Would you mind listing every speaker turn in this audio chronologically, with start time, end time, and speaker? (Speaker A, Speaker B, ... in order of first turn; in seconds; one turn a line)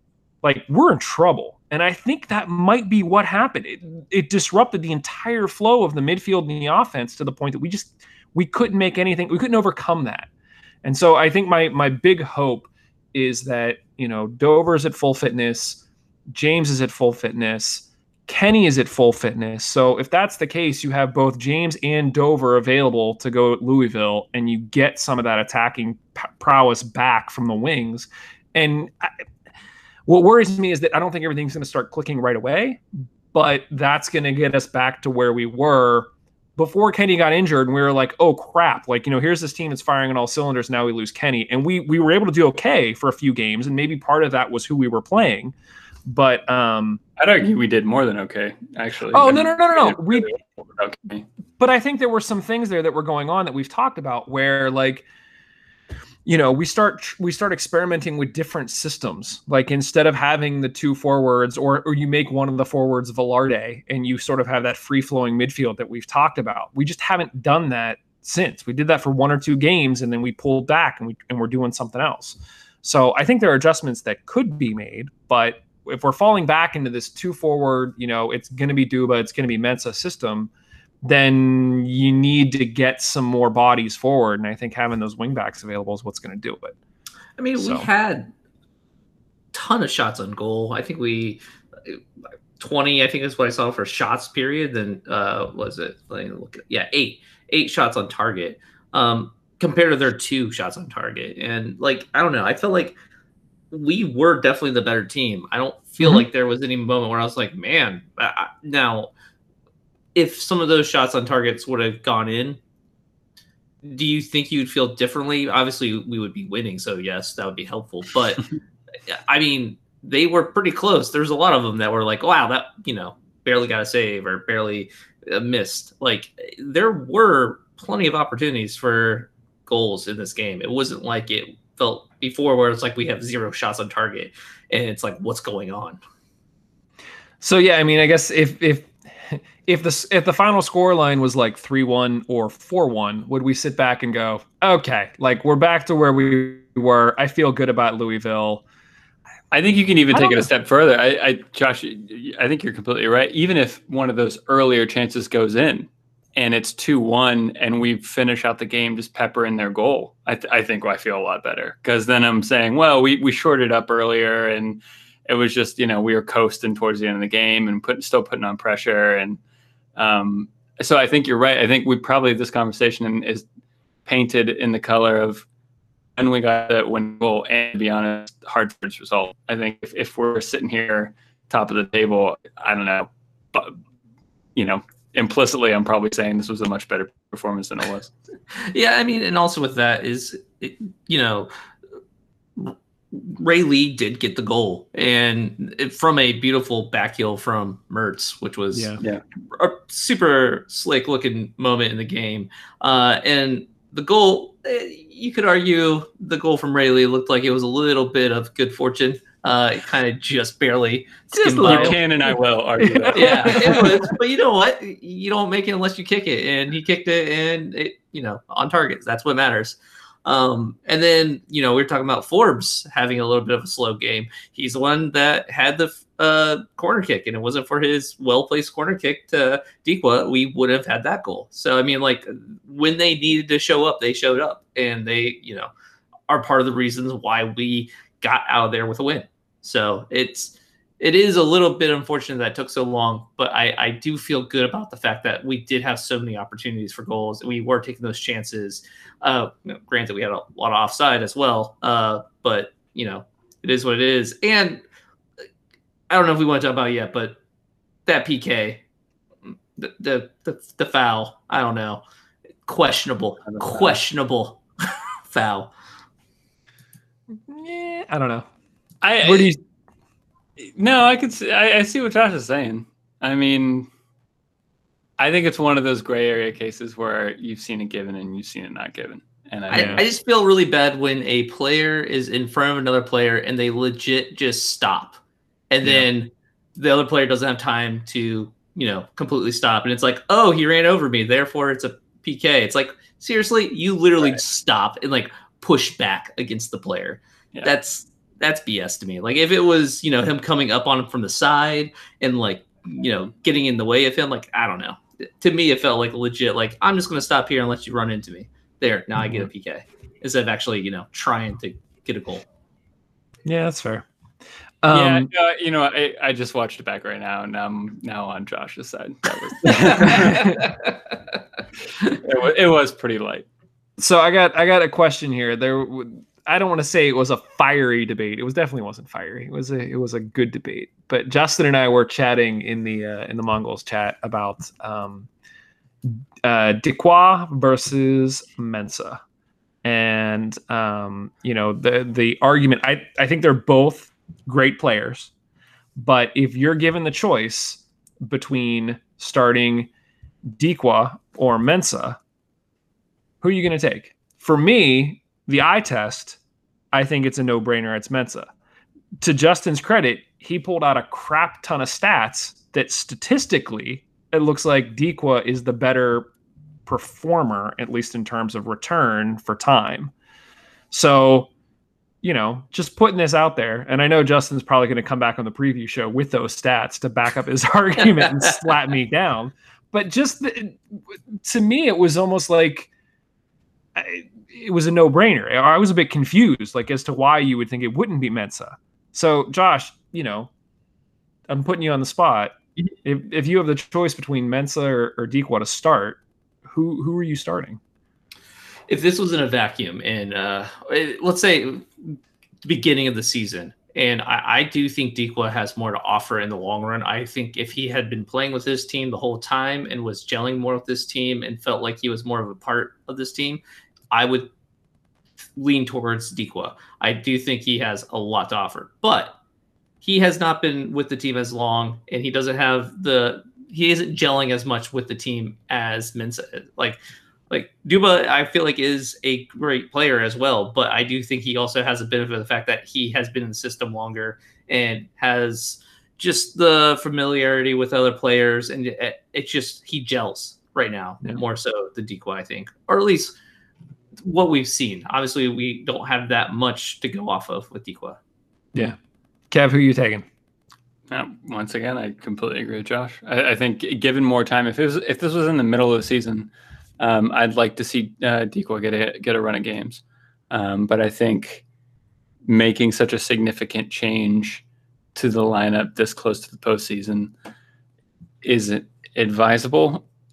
Speaker A: 0.4-10.3
Speaker A: 10.8-29.1
Speaker A: 30.1-45.5
Speaker A: 46.0-47.0
Speaker B: 47.2-51.2
Speaker A: 49.1-50.3
Speaker A: 51.6-55.0
Speaker A: 56.2-80.5
Speaker A: 81.0-86.7
Speaker C: 87.4-88.3
Speaker A: 87.5-87.9
Speaker C: 89.5-92.0
Speaker C: 92.6-103.0
Speaker C: 103.7-109.1
Speaker A: 106.0-106.2
Speaker C: 110.1-112.6
Speaker C: 113.8-118.5
Speaker C: 119.1-136.0
Speaker A: 137.4-148.6
Speaker B: 149.5-169.4
Speaker A: 150.1-150.5
Speaker B: 169.9-173.4
Speaker B: 174.1-175.4
Speaker B: 176.2-183.8
Speaker B: 184.5-188.1
Speaker C: 188.5-191.5
Speaker C: 192.6-198.9
Speaker A: 198.7-199.0
Speaker C: 199.5-212.0
Speaker A: 211.3-214.1
Speaker B: 211.6-213.9
Speaker C: 213.1-235.7
Speaker C: 236.3-254.8
Speaker C: 256.1-257.4
Speaker C: 258.1-258.8
Speaker C: 259.8-262.0
Speaker C: 262.7-264.6
Speaker B: 263.5-264.0
Speaker C: 265.3-265.7
Speaker A: 267.5-268.5
Speaker B: 269.0-269.5
Speaker A: 269.2-269.6
Speaker B: 270.6-273.9
Speaker B: 275.2-280.0
Speaker A: 279.7-280.0
Speaker C: 279.7-285.2
Speaker C: 285.7-312.4
Speaker A: 309.2-309.5
Speaker A: 313.4-314.1
Speaker A: 314.8-315.3
Speaker B: 314.9-320.5
Speaker A: 319.7-320.6
Speaker C: 319.9-320.9
Speaker B: 322.2-323.4
Speaker A: 324.0-335.3
Speaker A: 336.1-339.2
Speaker A: 339.8-345.3
Speaker A: 346.0-349.9
Speaker A: 350.5-352.2
Speaker A: 353.4-356.4
Speaker A: 356.9-358.5
Speaker A: 359.2-366.3
Speaker A: 366.9-370.1
Speaker A: 370.9-371.5
Speaker A: 372.2-380.8
Speaker A: 381.4-382.9
Speaker A: 383.9-390.5
Speaker A: 391.5-397.8
Speaker C: 398.9-414.5
Speaker C: 415.6-419.4
Speaker C: 420.0-427.0
Speaker C: 427.5-443.3
Speaker C: 444.2-448.2
Speaker A: 449.5-450.2
Speaker B: 451.1-461.6
Speaker B: 462.4-464.6
Speaker B: 465.1-467.3
Speaker B: 468.4-470.0